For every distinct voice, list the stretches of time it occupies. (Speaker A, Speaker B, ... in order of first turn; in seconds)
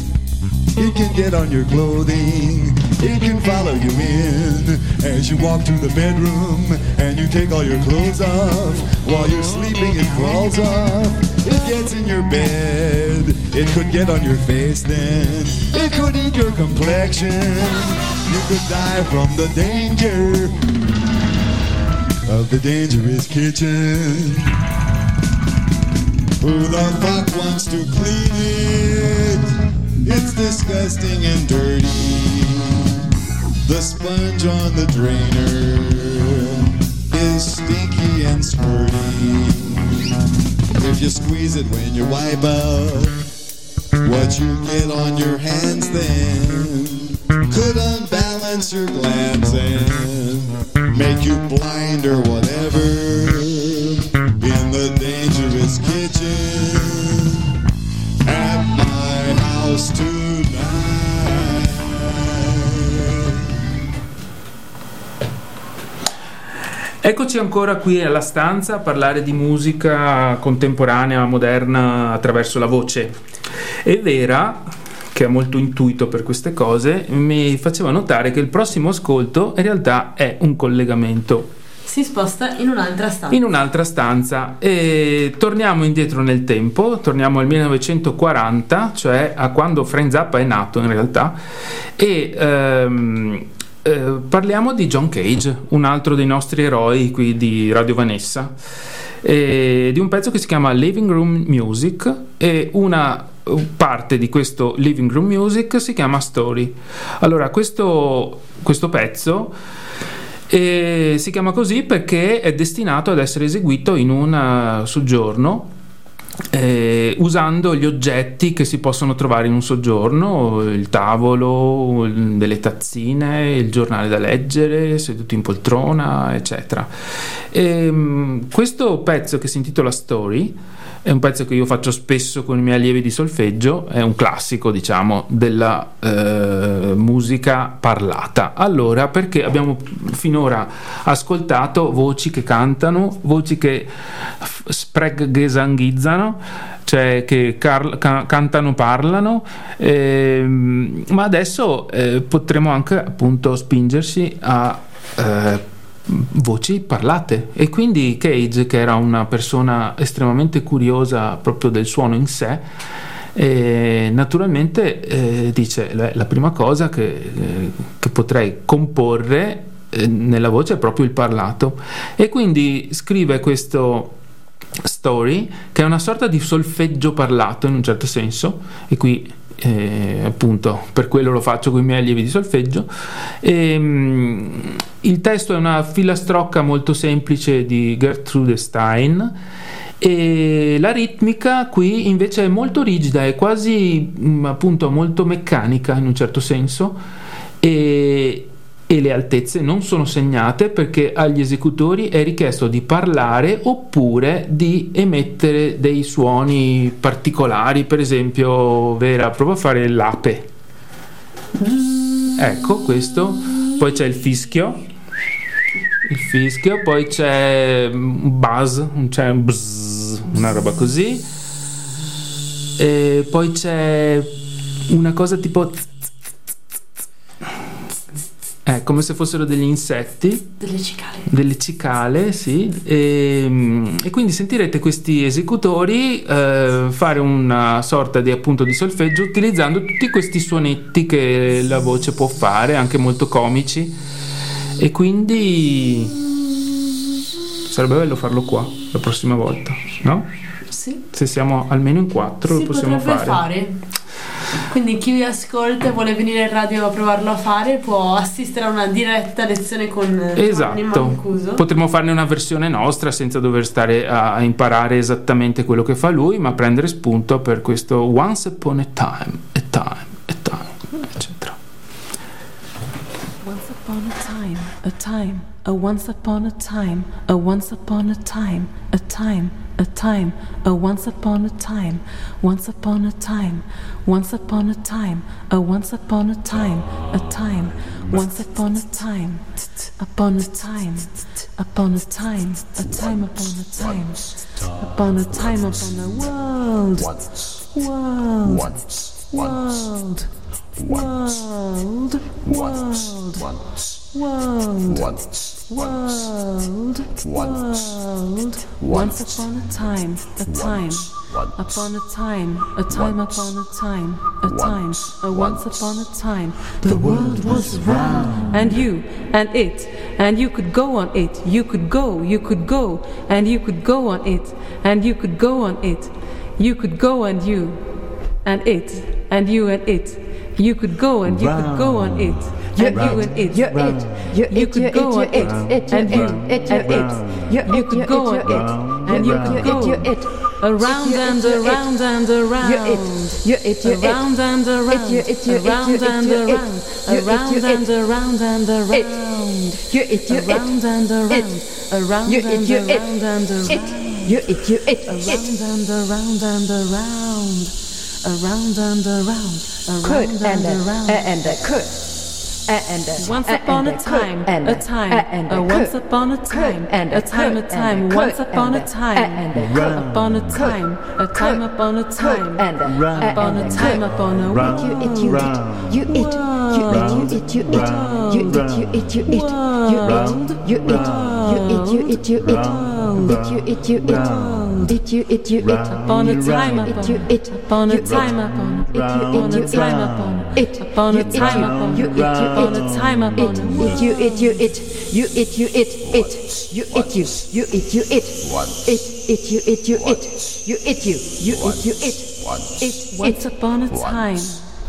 Speaker A: 0.8-20.6, 22.3-24.6, 26.4-29.4, 30.0-32.9, 33.6-40.0, 40.7-43.2, 44.0-57.5, 58.2-63.4
Speaker B: 67.0-73.2, 73.8-81.5, 83.3-91.4, 92.0-98.5, 99.2-109.5, 110.5-115.7, 116.5-126.9, 127.5-162.7, 163.3-174.2, 174.8-182.9, 183.4-189.3, 190.0-197.0, 197.6-210.5, 212.3-214.8, 216.1-221.3, 222.8-224.3, 224.9-225.9, 228.6-230.5, 231.3-244.0, 244.8-246.1, 247.7-250.3, 251.1-253.4, 260.3-271.6
Speaker C: 81.8-83.5, 211.6-212.3, 230.6-231.3, 250.7-251.0, 252.5-253.8, 254.7-261.6
Speaker D: 273.4-289.5, 290.0-297.2, 297.7-303.6, 304.1-327.9, 328.4-361.6, 363.2-385.0, 385.7-394.6, 402.8-404.7
Speaker E: 332.7-341.9, 342.6-347.9, 348.9-349.2, 349.9-351.5, 352.2-355.6, 360.0-403.5